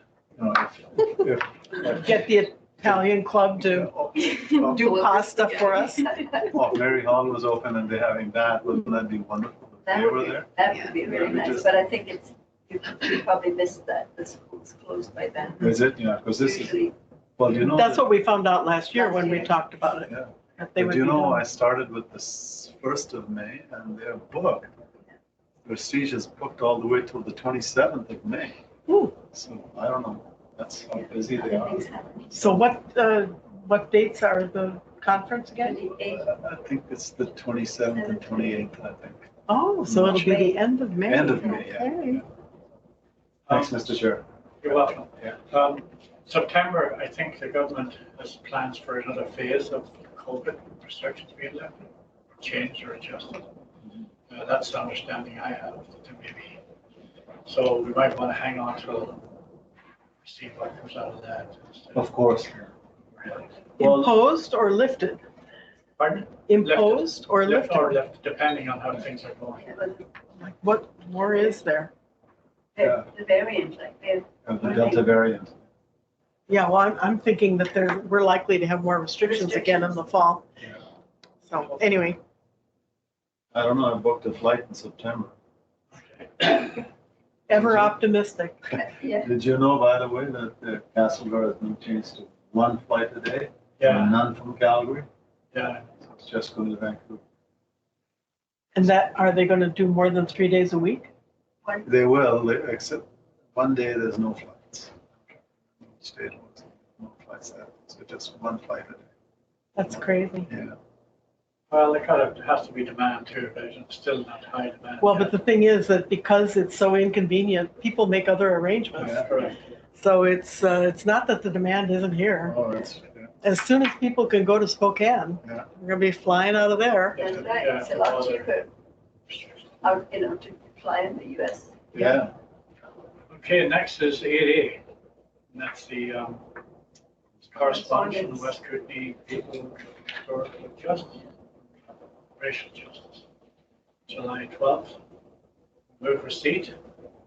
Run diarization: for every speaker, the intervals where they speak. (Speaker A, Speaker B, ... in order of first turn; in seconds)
Speaker A: 0.4-3.0, 3.6-5.1, 6.5-11.9, 15.6-16.8, 17.4-18.1, 20.1-24.7, 25.6-28.6, 29.2-31.8, 36.1-39.3, 39.8-40.5, 41.1-42.2, 43.5-45.4, 62.0-62.7, 63.8-64.1, 72.8-73.0, 74.5-75.6, 83.5-85.3, 87.5-87.9, 89.1-95.1, 96.0-97.2, 101.8-103.0, 103.5-105.2, 105.8-109.1, 110.5-110.8, 122.5-123.3, 131.9-132.3
Speaker B: 2.0-3.9, 4.7-6.2, 17.6-21.4, 28.9-29.2, 32.3-35.8, 39.5-42.2, 63.8-65.2, 66.5-68.0, 70.4-71.9, 76.5-80.5, 81.4-82.2, 87.5-88.7, 98.8-101.1, 109.8-110.5, 115.0-119.2, 120.0-122.6, 123.4-127.3, 131.9-132.2
Speaker C: 4.2-6.5, 9.8-15.8, 16.4-17.0, 18.9-19.5, 30.9-32.5, 35.6-36.2, 37.9-38.7, 69.6-70.0, 72.8-75.1, 79.2-80.1, 88.8-89.3, 127.2-128.7, 129.8-131.8, 137.7-138.6
Speaker D: 43.5-43.7, 44.6-51.9, 52.4-53.5, 54.3-56.6, 57.5-59.3, 60.2-62.1, 63.2-63.5, 66.0-69.8, 85.9-86.9, 93.8-94.2, 95.5-95.8, 111.7-115.4, 119.0-119.7, 127.1-128.5, 129.3-129.8, 133.3-134.8, 135.5-136.4, 137.5-141.2, 142.4-143.2, 144.1-145.0, 146.0-146.8